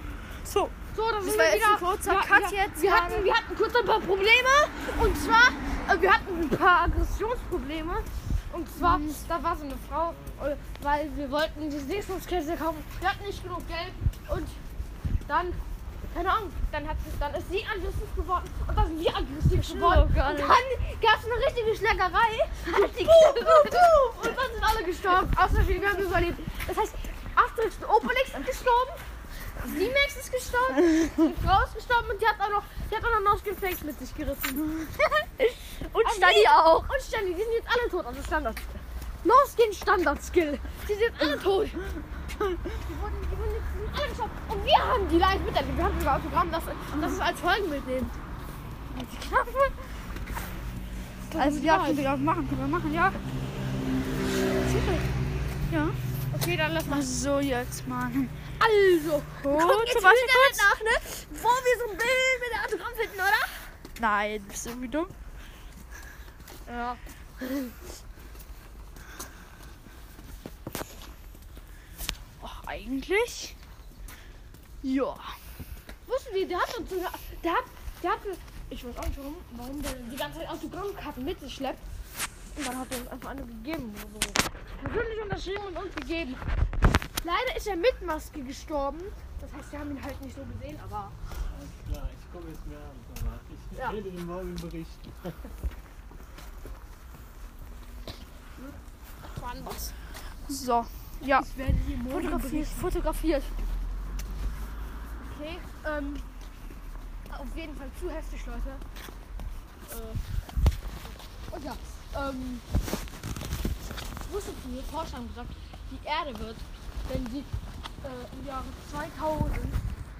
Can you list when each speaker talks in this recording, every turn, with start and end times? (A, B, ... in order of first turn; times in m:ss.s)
0:00.4-0:03.3 A
0:00.9-0:14.6 B
0:08.8-0:09.2 A
0:15.2-0:15.6 B
0:16.1-0:29.0 B
0:19.5-0:20.6 A
0:22.6-0:24.2 A
0:29.6-0:34.7 B
0:34.7-0:36.8 A
0:36.0-0:41.9 B
0:42.8-0:48.2 B
0:46.9-0:47.2 A
0:48.9-0:49.8 B
0:51.2-0:52.1 B
0:51.3-0:53.2 A
0:54.6-0:55.0 B
0:55.7-0:56.0 A
0:56.3-0:57.1 B
0:56.8-0:58.3 A
0:58.6-1:03.7 B
0:59.4-1:00.7 A
1:04.0-1:05.1 A
1:06.7-1:07.7 B
1:12.4-1:13.6 A
1:14.8-1:15.4 A
1:16.0-1:21.8 B
1:22.5-1:26.4 B
1:27.2-1:31.1 B
1:31.5-1:35.2 C
1:33.7-1:34.0 B
1:39.3-1:39.9 B
1:40.4-1:41.5 A
1:41.2-1:42.9 B
1:42.1-1:43.7 A
1:45.2-1:46.2 B
1:47.3-1:48.8 B
1:49.9-1:50.2 B
1:51.5-1:52.6 B
1:54.2-1:57.5 B
1:58.0-1:59.8 B